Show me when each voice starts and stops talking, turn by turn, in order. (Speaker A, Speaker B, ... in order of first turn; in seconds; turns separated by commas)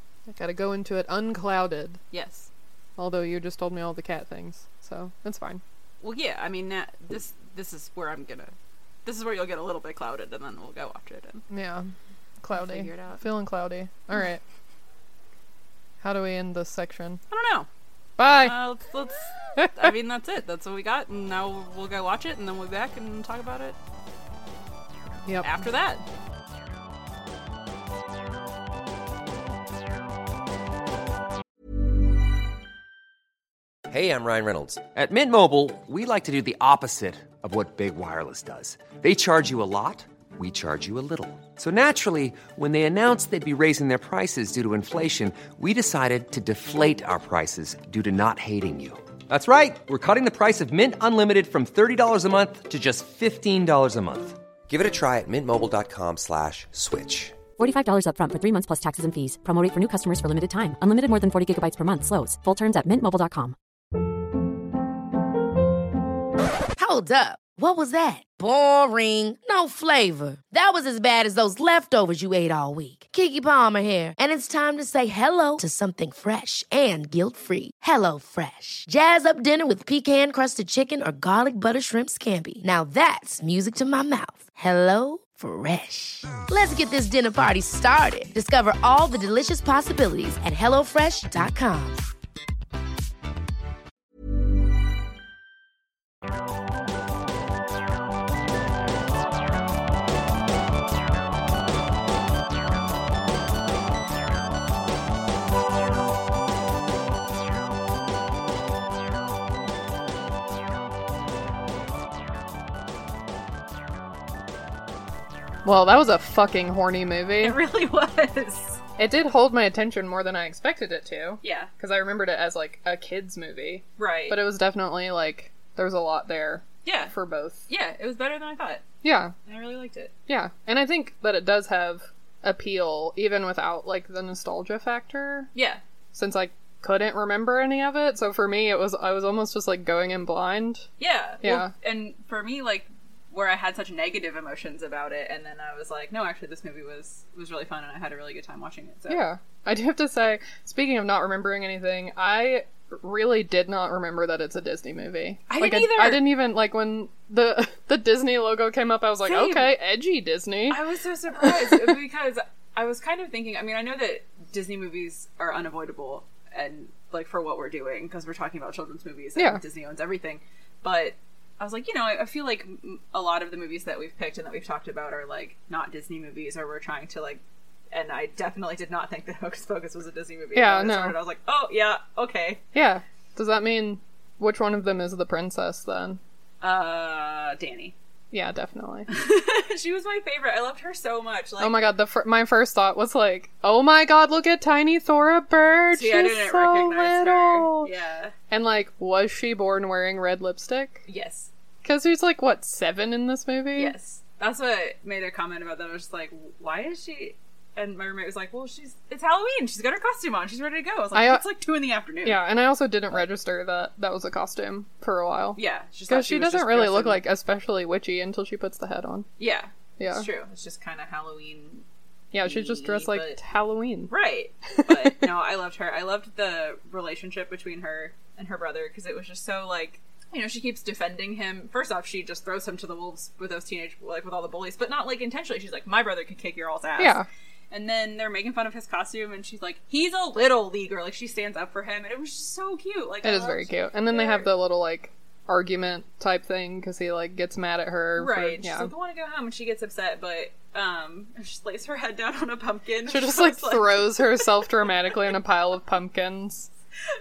Speaker A: 0.3-2.0, Speaker B: 2.1-2.5, Speaker A: 3.0-5.6, Speaker B: 6.0-8.5, Speaker B: 9.0-11.4, Speaker A: 11.5-14.4, Speaker B: 12.5-13.2, Speaker A: 16.0-17.2, Speaker B: 17.3-17.7, Speaker A: 18.2-18.5, Speaker B: 18.3-23.8, Speaker B: 25.4-26.0, Speaker C: 33.9-57.4, Speaker D: 57.6-63.5, Speaker E: 66.8-92.0, Speaker A: 115.6-117.6, Speaker B: 117.4-118.8, Speaker A: 119.0-127.6, Speaker B: 121.4-121.7, Speaker B: 124.0-124.4, Speaker B: 126.8-127.1, Speaker B: 127.7-128.8, Speaker A: 129.0-129.3, Speaker B: 129.4-130.1, Speaker A: 130.3-135.5, Speaker B: 135.5-135.8, Speaker A: 136.1-140.9, Speaker B: 141.0-149.3, Speaker A: 141.4-141.7, Speaker A: 149.1-160.8, Speaker B: 155.5-156.3, Speaker B: 159.2-159.7, Speaker B: 160.7-182.6, Speaker A: 161.4-161.9, Speaker A: 180.5-181.2, Speaker A: 182.7-186.2, Speaker B: 186.6-187.9, Speaker A: 188.3-189.1, Speaker B: 189.1-191.8, Speaker A: 191.6-197.9, Speaker B: 195.9-198.3, Speaker A: 198.5-201.0, Speaker B: 201.1-201.5, Speaker A: 201.8-203.9, Speaker B: 203.7-212.4, Speaker A: 211.1-211.4, Speaker A: 212.2-219.2, Speaker B: 215.5-217.2, Speaker B: 219.4-221.8, Speaker A: 220.0-220.3, Speaker A: 222.3-224.1, Speaker B: 222.4-223.4, Speaker B: 224.1-244.5, Speaker A: 224.8-225.1, Speaker A: 237.0-237.3, Speaker A: 243.2-248.9, Speaker B: 248.2-254.5, Speaker A: 253.1-256.7